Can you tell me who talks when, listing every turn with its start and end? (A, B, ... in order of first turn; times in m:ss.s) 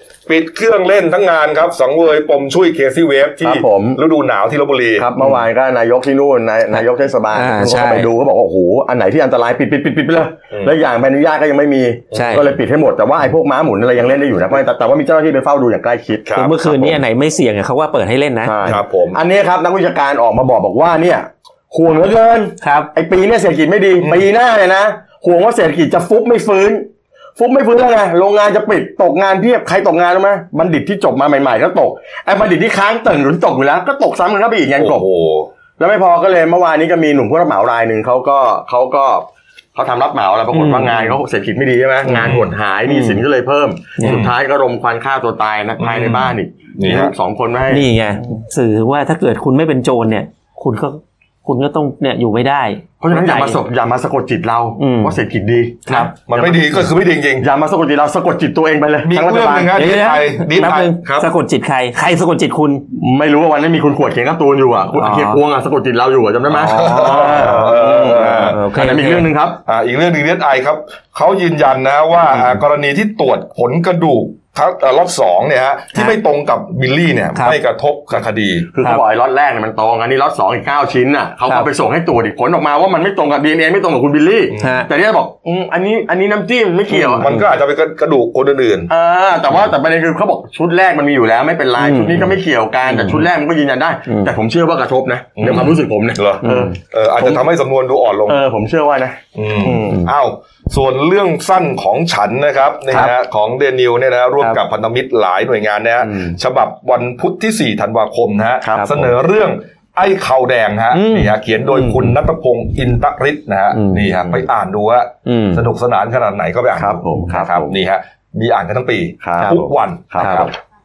0:00.3-0:05.1 A
0:03.4-0:04.0 B
0:05.0-0:17.0 B
0:06.7-0:08.1 C
0:12.1-0:12.5 C
0:16.2-0:16.5 A
0:16.3-0:18.6 C
0:18.4-0:35.0 B
0:18.6-0:19.2 A
0:22.6-0:22.9 C
0:34.8-0:35.5 A
0:35.8-0:47.9 B
0:40.5-0:41.2 C
0:42.0-0:43.2 C
0:42.2-0:42.5 A
0:44.0-0:44.3 C
0:44.0-0:44.3 A
0:45.8-0:47.1 A
0:47.7-0:53.6 C
0:53.0-0:56.5 B
0:54.8-0:55.2 C
0:55.9-0:56.5 C
0:56.2-0:57.5 A
0:57.4-0:59.7 B
0:59.0-1:01.3 A
0:59.7-1:02.8 C
1:02.9-1:09.6 B
1:04.9-1:05.4 C
1:06.5-1:09.3 C
1:06.6-1:08.6 A
1:09.6-1:18.7 A
1:18.7-1:27.3 B
1:24.5-1:24.8 A
1:24.6-1:24.9 C
1:26.9-1:27.5 C
1:27.2-1:28.9 A
1:28.9-1:37.4 B
1:31.8-1:33.2 C
1:34.1-1:34.3 C
1:35.4-1:38.4 A
1:36.4-1:36.7 C
1:38.3-1:40.1 B
1:39.4-2:00.5 A
1:48.6-1:49.0 B
1:50.9-1:52.1 C
1:53.7-1:54.1 C
1:55.2-1:55.6 C
1:56.8-1:57.8 B
1:59.2-2:00.5 B
2:00.2-2:00.5 C